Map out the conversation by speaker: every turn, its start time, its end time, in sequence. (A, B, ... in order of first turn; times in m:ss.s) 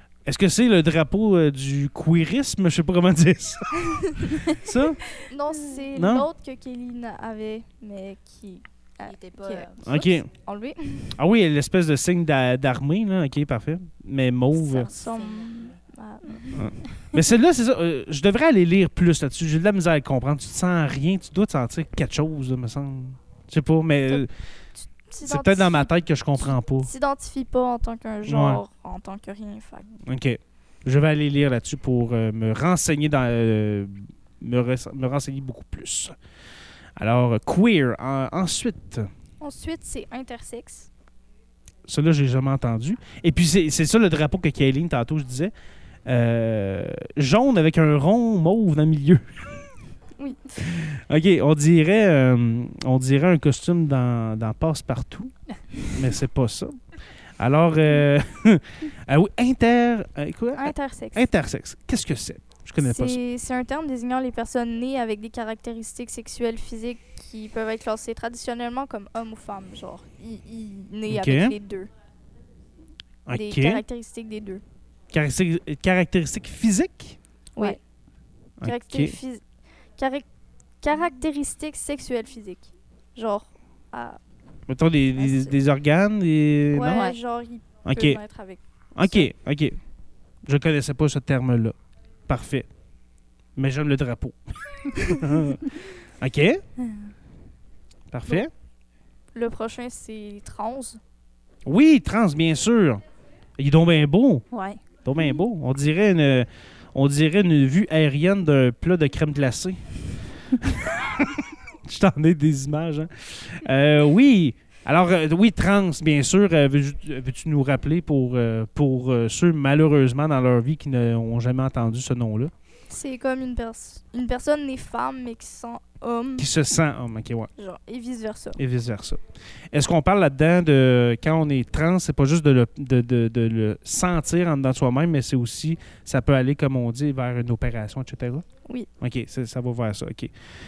0:00.2-0:05.0 A
0:03.9-0:04.3 B
0:05.2-0:11.2 B
0:05.5-0:05.8 C
0:05.9-0:06.3 A
0:09.0-0:10.1 C
0:09.8-0:10.3 A
0:11.1-0:14.9 A
0:14.6-0:16.8 B
0:14.7-0:15.8 C
0:16.5-0:24.3 A
0:24.8-0:29.9 B
0:25.2-0:26.9 A
0:28.3-0:28.6 A
0:30.0-0:36.1 A
0:37.0-0:39.1 A
0:39.4-0:40.9 B
0:41.9-0:45.5 A
0:46.1-0:49.7 A
0:50.2-0:50.5 B
0:50.6-0:55.3 A
0:55.9-0:56.7 A
0:57.4-1:03.2 A
1:00.6-1:01.2 B
1:02.8-1:11.9 B
1:11.1-1:11.6 A
1:13.2-1:13.8 A
1:13.3-1:14.6 B
1:15.1-1:17.2 A
1:18.6-1:19.2 A
1:18.6-1:19.4 B
1:20.0-1:20.3 B
1:20.8-1:24.2 B
1:24.7-1:27.0 A
1:25.2-1:25.5 B
1:26.7-1:29.2 B
1:26.9-1:27.2 C
1:27.8-1:28.2 A
1:29.0-1:29.8 A
1:30.5-1:31.8 A
1:32.3-1:32.7 A
1:33.6-1:36.6 A
1:36.8-1:37.1 C
1:38.1-1:38.5 A
1:39.3-1:41.0 B
1:41.7-1:43.0 A
1:43.6-1:44.5 A
1:44.5-1:44.8 C
1:45.0-1:50.0 A
1:50.5-2:02.5 A
2:02.9-2:06.5 B
2:06.4-2:07.5 A
2:07.6-2:08.6 B
2:08.6-2:09.2 A
2:09.7-2:18.4 A
2:19.0-2:20.3 A